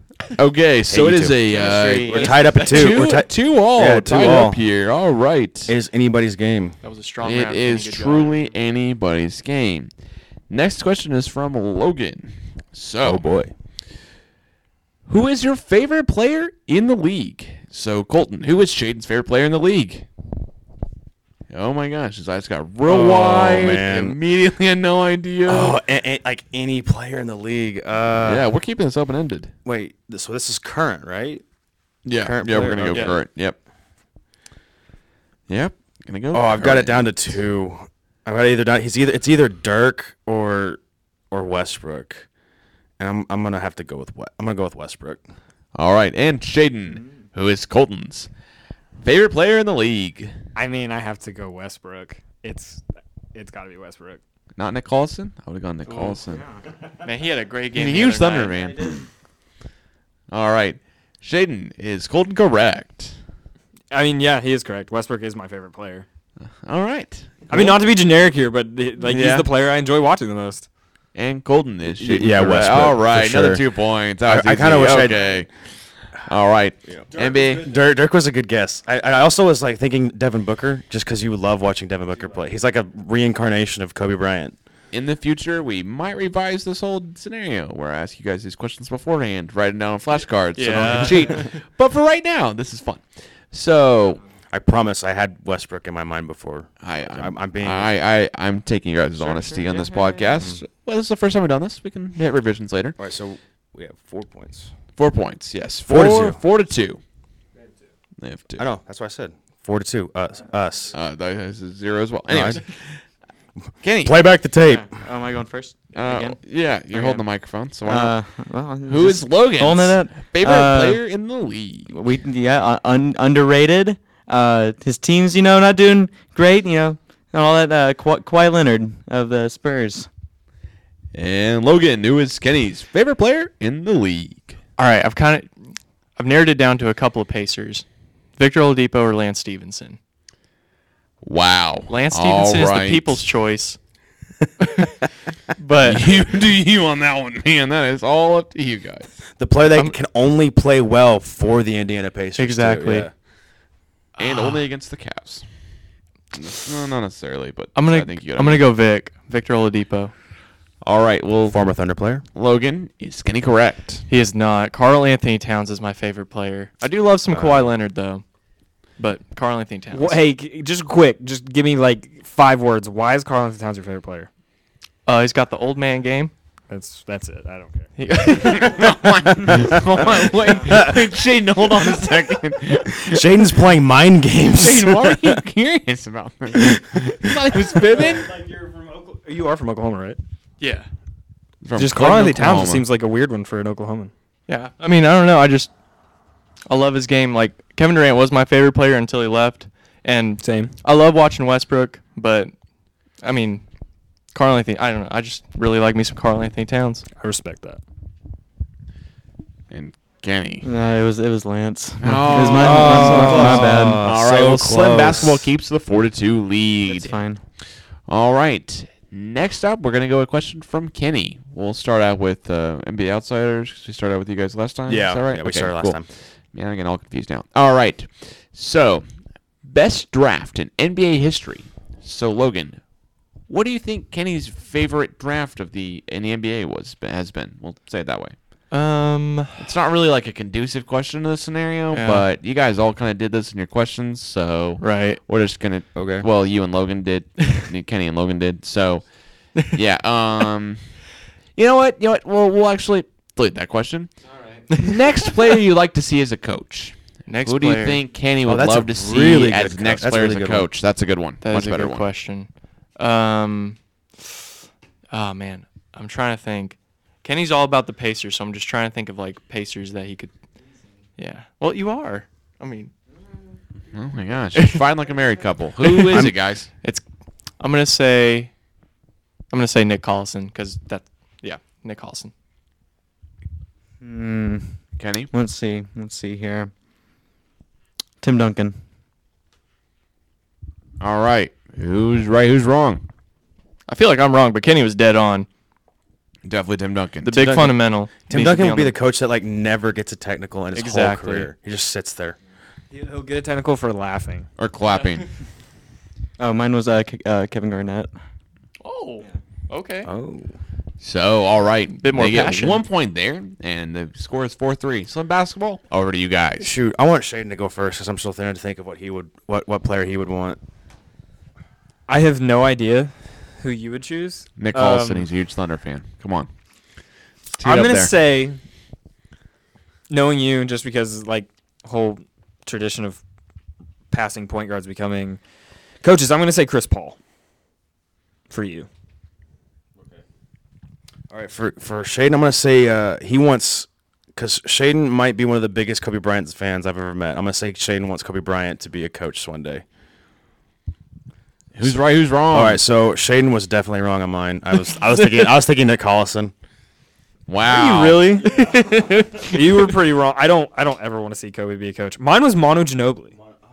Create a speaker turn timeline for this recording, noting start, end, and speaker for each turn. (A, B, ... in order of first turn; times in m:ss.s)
0:00.4-0:05.7 A
0:00.9-0:04.6 B
0:01.8-0:02.3 C
0:05.7-0:06.8 B
0:06.8-0:08.5 D
0:07.2-0:09.9 A
0:10.5-0:13.2 A
0:13.0-0:13.5 B
0:15.1-0:20.0 A
0:21.5-0:25.8 A
0:22.8-0:24.2 B
0:25.4-0:28.4 B
0:28.2-0:29.5 A
0:29.6-0:31.4 B
0:32.0-0:33.6 A
0:32.2-0:33.1 B
0:32.3-0:32.9 C
0:32.9-0:33.2 D
0:35.5-0:37.4 A
0:36.3-0:40.8 B
0:41.3-0:42.3 B
0:43.0-0:45.2 B
0:45.7-0:48.3 A
0:49.0-0:50.3 A
0:50.6-0:54.2 E
0:54.6-0:56.4 A
0:57.0-0:58.7 D
0:57.7-0:59.0 A
1:00.3-1:03.2 A
1:03.9-1:06.0 E
1:06.6-1:07.8 A
1:07.5-1:10.7 E
1:09.0-1:09.5 A
1:11.1-1:15.5 A
1:11.9-1:13.6 B
1:14.2-1:15.2 B
1:16.1-1:17.7 A
1:16.8-1:24.6 B
1:24.9-1:34.2 A
1:30.5-1:31.5 D
1:34.5-1:37.9 B
1:36.8-1:43.0 A
1:43.0-1:44.7 B
1:45.0-1:47.0 A
1:45.9-1:46.4 B
1:48.2-1:48.6 A
1:48.6-1:50.9 B
1:50.9-1:53.0 A
1:52.3-1:52.6 B
1:53.8-1:54.2 A
1:54.0-1:54.9 B
1:54.6-1:56.4 C
1:55.9-1:58.2 A
1:56.9-1:57.2 C
1:57.8-2:01.0 C
1:58.9-2:01.9 A
2:01.9-2:10.1 C
2:11.1-2:14.6 A
2:14.8-2:15.5 D
2:16.2-2:17.8 D
2:18.4-2:20.0 D
2:21.2-2:23.2 A
2:21.9-2:23.8 D
2:24.6-2:25.0 D
2:25.5-2:26.2 D
2:25.8-2:29.1 A
2:29.4-2:33.1 B
2:32.4-2:33.1 D
2:34.2-2:34.6 D
2:34.2-2:35.4 A
2:36.3-2:38.6 A
2:37.7-2:40.1 D
2:40.8-2:41.6 A
2:41.5-2:42.2 B
2:42.3-2:44.0 A
2:44.1-2:48.2 D
2:47.3-2:47.7 B
2:49.0-2:50.2 D
2:49.9-2:54.3 E
2:55.0-2:56.3 D
2:56.7-2:57.9 E
2:58.0-2:58.9 D
2:58.3-3:03.2 A
3:03.0-3:05.4 B
3:04.5-3:08.3 A
3:07.9-3:10.2 E
3:10.6-3:10.9 D
3:11.6-3:12.9 A
3:11.8-3:14.1 E
3:14.5-3:15.7 D
3:16.7-3:22.5 D
3:20.4-3:20.7 E
3:23.2-3:23.6 D
3:24.3-3:27.0 D
3:27.2-3:27.8 E
3:29.7-3:30.7 A
3:30.6-3:34.0 C
3:32.0-3:37.2 A
3:32.4-3:35.5 B
3:36.9-3:37.4 C
3:38.1-3:49.0 A
3:44.9-3:46.1 B
3:49.6-3:52.8 A
3:53.5-3:58.4 A
3:58.7-3:59.7 D
3:59.6-4:11.0 A
4:01.9-4:02.2 D
4:04.8-4:05.2 D
4:05.9-4:06.2 B
4:11.5-4:14.1 A
4:14.7-4:22.0 A
4:17.3-4:18.0 D
4:18.4-4:20.7 B
4:21.4-4:23.8 D
4:25.1-4:30.3 D
4:31.2-4:32.9 D
4:33.9-4:36.7 A
4:34.5-4:34.8 D
4:35.8-4:37.0 D
4:37.6-4:38.5 D
4:39.5-4:42.3 D
4:44.0-4:44.8 C
4:45.0-4:45.3 A
4:45.3-4:46.7 C
4:48.2-4:48.8 C
4:51.0-4:53.0 A
4:53.9-4:55.5 D
4:56.4-4:57.5 A
4:57.2-4:58.9 D
4:57.4-4:57.7 B
4:58.3-5:02.4 B
5:00.7-5:01.5 D
5:02.9-5:04.5 E
5:04.6-5:05.3 A
5:06.4-5:08.1 C
5:08.8-5:10.1 D
5:10.0-5:10.5 B
5:11.0-5:16.7 A
5:11.9-5:12.8 D
5:16.6-5:20.6 B
5:22.1-5:25.3 E
5:24.6-5:26.5 A
5:27.5-5:28.1 A
5:27.6-5:28.6 E
5:30.1-5:33.2 E
5:34.1-5:35.4 E
5:36.0-5:37.2 E
5:38.5-5:38.9 E
5:41.3-5:49.8 B
5:51.7-5:52.8 A
5:52.5-5:56.5 B
5:57.5-5:58.4 A
5:57.6-6:03.3 E
5:58.4-5:59.5 D